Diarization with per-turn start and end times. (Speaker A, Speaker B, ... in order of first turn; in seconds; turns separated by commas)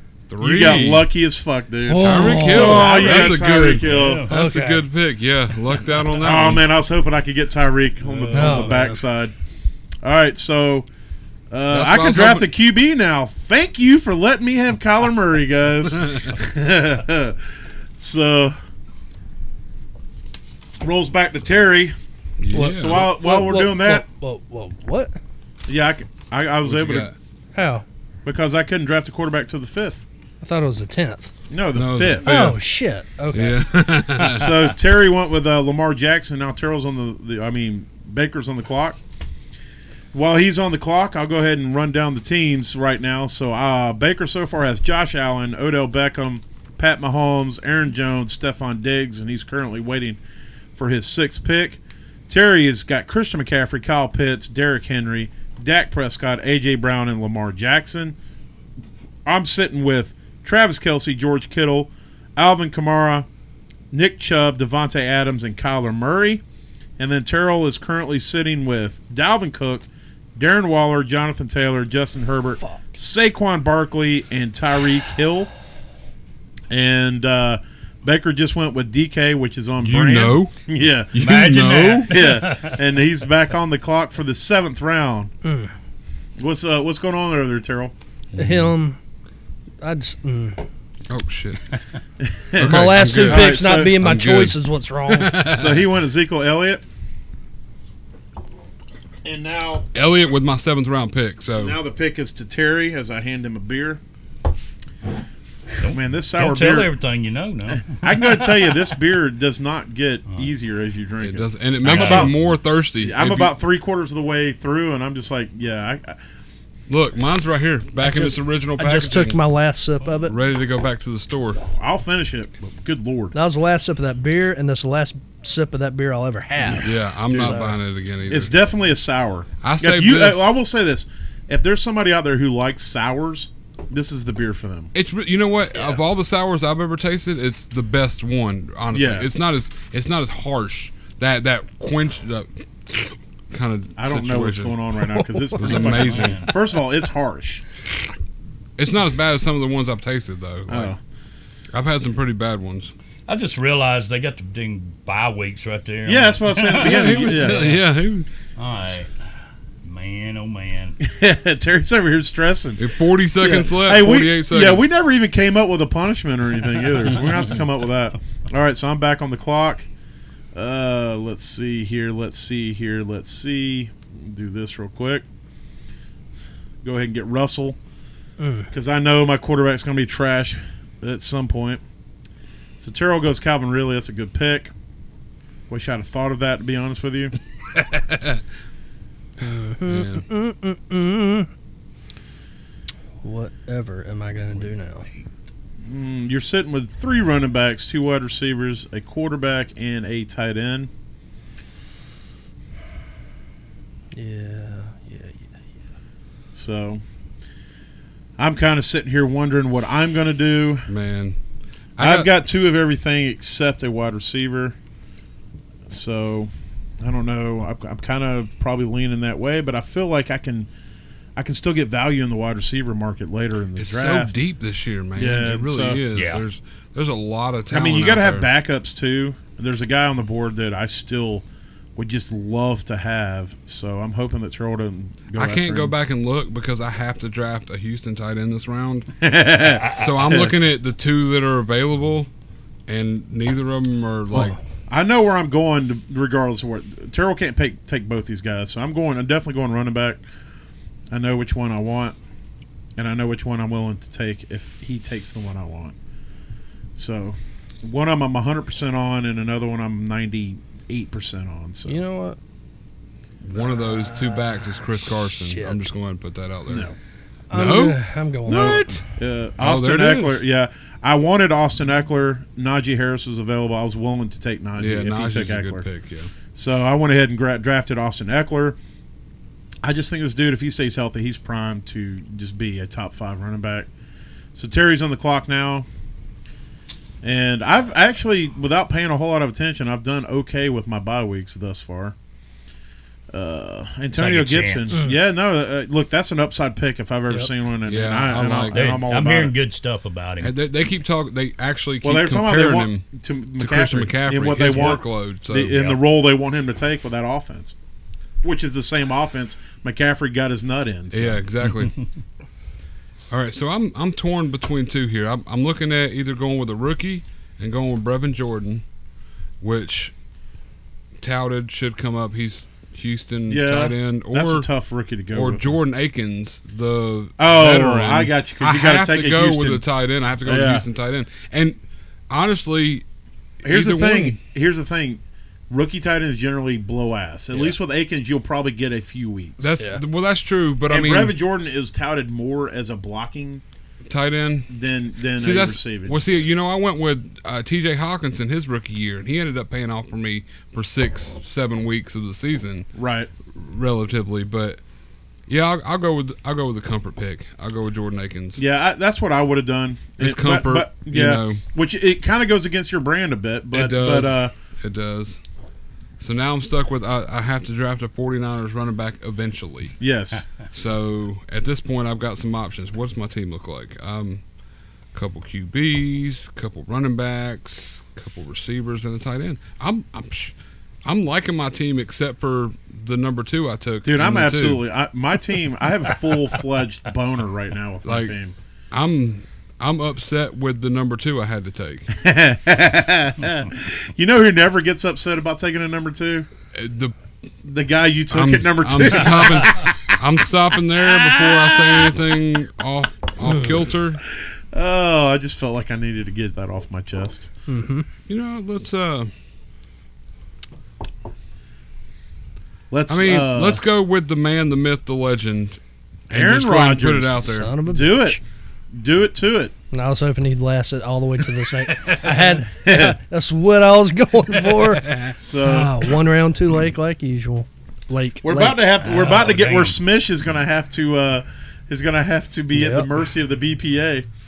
Speaker A: 0.3-1.1, Speaker B: 0.4-4.3, Speaker C: 1.9-3.4, Speaker A: 1.9-6.7, Speaker D: 2.9-4.3, Speaker C: 4.3-4.9, Speaker B: 6.2-9.3, Speaker D: 8.0-8.9, Speaker C: 8.3-9.0, Speaker B: 10.0-10.8, Speaker B: 11.5-17.4, Speaker A: 11.7-12.5, Speaker A: 16.0-16.3, Speaker B: 18.0-18.6, Speaker B: 20.8-21.9, Speaker A: 22.4-23.4, Speaker C: 22.5-25.1, Speaker B: 22.7-24.0, Speaker B: 25.7-27.1, Speaker A: 26.6-27.1, Speaker C: 27.5-27.8, Speaker B: 28.2-30.0, Speaker C: 30.4-31.3, Speaker B: 31.5-32.5, Speaker A: 31.7-32.6, Speaker C: 32.2-33.6, Speaker A: 33.3-34.5, Speaker B: 34.3-39.0, Speaker B: 40.1-50.2, Speaker B: 50.8-58.1, Speaker B: 59.2-63.3, Speaker B: 63.9-66.4, Speaker B: 67.0-75.5, Speaker B: 76.7-81.2, Speaker A: 79.8-80.5, Speaker A: 81.1-82.2, Speaker D: 81.2-82.8, Speaker B: 82.1-85.3, Speaker C: 85.4-85.7, Speaker B: 86.4-87.9, Speaker A: 88.3-88.8, Speaker C: 88.3-89.0, Speaker C: 89.8-90.6, Speaker A: 91.1-91.6, Speaker B: 92.2-94.0, Speaker A: 92.5-95.9, Speaker C: 92.6-95.3, Speaker B: 95.5-96.8, Speaker B: 99.2-99.9, Speaker A: 99.9-101.8, Speaker B: 101.6-104.0, Speaker B: 105.8-106.9, Speaker D: 105.8-108.8, Speaker B: 107.9-116.2, Speaker A: 111.2-113.5, Speaker D: 111.8-112.3, Speaker A: 116.9-119.4, Speaker C: 118.0-120.3, Speaker A: 120.2-121.6, Speaker B: 121.6-123.3, Speaker C: 123.3-127.8, Speaker B: 126.6-127.6, Speaker A: 126.8-128.5, Speaker B: 128.3-134.9, Speaker A: 129.6-130.5, Speaker A: 134.9-144.8, Speaker B: 138.9-139.3, Speaker B: 144.0-147.6, Speaker A: 145.6-146.5, Speaker D: 145.7-146.5, Speaker A: 148.8-150.9, Speaker B: 150.7-151.0, Speaker A: 151.7-152.9, Speaker D: 153.3-157.8, Speaker B: 156.1-157.6, Speaker A: 156.7-158.3, Speaker D: 158.6-159.1, Speaker D: 159.8-161.0, Speaker B: 161.0-162.8, Speaker A: 162.8-164.9, Speaker B: 163.3-169.9, Speaker B: 170.5-175.2, Speaker B: 176.8-177.8, Speaker C: 178.4-178.7, Speaker B: 178.7-181.8, Speaker B: 182.8-184.7, Speaker B: 185.7-187.3, Speaker A: 187.7-188.4, Speaker C: 189.4-191.5, Speaker A: 189.8-190.2, Speaker C: 193.2-195.1, Speaker B: 195.8-200.9, Speaker C: 204.1-205.4, Speaker B: 206.5-207.0, Speaker B: 208.4-210.9, Speaker A: 210.9-211.4, Speaker A: 212.0-212.3, Speaker B: 212.0-214.8, Speaker B: 215.9-220.7, Speaker B: 221.3-224.3, Speaker A: 223.8-228.5, Speaker B: 225.2-226.0, Speaker D: 226.1-226.4, Speaker B: 227.7-231.4, Speaker B: 231.9-235.9, Speaker A: 235.3-239.1, Speaker B: 239.2-240.5, Speaker A: 239.9-242.3, Speaker A: 242.9-244.6, Speaker B: 244.3-250.2, Speaker B: 251.1-252.2, Speaker B: 253.0-255.9, Speaker B: 257.0-262.0, Speaker C: 261.9-262.4, Speaker A: 263.4-266.9, Speaker C: 265.3-265.8, Speaker B: 266.7-266.9, Speaker C: 267.5-269.0, Speaker A: 267.5-269.0, Speaker B: 268.4-275.8, Speaker A: 269.6-270.4, Speaker A: 274.8-276.3, Speaker B: 276.5-278.8, Speaker B: 279.8-283.9, Speaker B: 284.5-285.9, Speaker B: 287.2-292.1, Speaker B: 293.3-299.5, Speaker D: 294.1-295.0, Speaker A: 297.8-299.0, Speaker D: 298.7-300.5, Speaker A: 300.4-303.0, Speaker B: 302.0-307.7, Speaker A: 303.6-306.0, Speaker B: 308.4-311.4, Speaker A: 311.1-312.0, Speaker A: 313.3-318.8, Speaker A: 319.6-320.1, Speaker A: 321.2-324.7, Speaker B: 323.5-325.7, Speaker A: 325.3-331.8, Speaker B: 327.4-329.8, Speaker B: 330.4-330.8, Speaker A: 332.3-333.0, Speaker A: 333.6-334.4, Speaker B: 333.6-339.6, Speaker A: 339.6-341.4, Speaker B: 340.9-343.6, Speaker A: 344.1-344.7, Speaker B: 344.7-346.2, Speaker A: 345.4-352.9, Speaker B: 352.9-353.3, Speaker A: 353.5-354.8, Speaker A: 355.5-358.6, Speaker B: 358.6-364.5, Speaker A: 360.2-361.6, Speaker A: 363.7-365.4, Speaker A: 366.2-370.0, Speaker B: 370.0-370.5, Speaker A: 370.6-374.4, Speaker A: 375.1-384.8, Speaker B: 384.0-388.5, Speaker A: 388.0-388.3, Speaker A: 388.9-392.1, Speaker B: 392.2-396.5, Speaker A: 396.7-397.1, Speaker B: 397.6-399.9, Speaker A: 398.3-404.2, Speaker B: 401.1-402.1, Speaker B: 404.7-407.5, Speaker C: 407.7-408.1, Speaker A: 408.3-409.3, Speaker B: 412.9-413.8, Speaker A: 413.1-417.7, Speaker B: 416.3-418.4, Speaker C: 417.4-418.4, Speaker B: 418.9-419.7, Speaker C: 419.9-428.8, Speaker B: 422.7-423.2, Speaker A: 424.7-425.4, Speaker B: 425.4-426.1, Speaker B: 428.4-434.3, Speaker D: 429.0-430.0, Speaker C: 432.7-433.1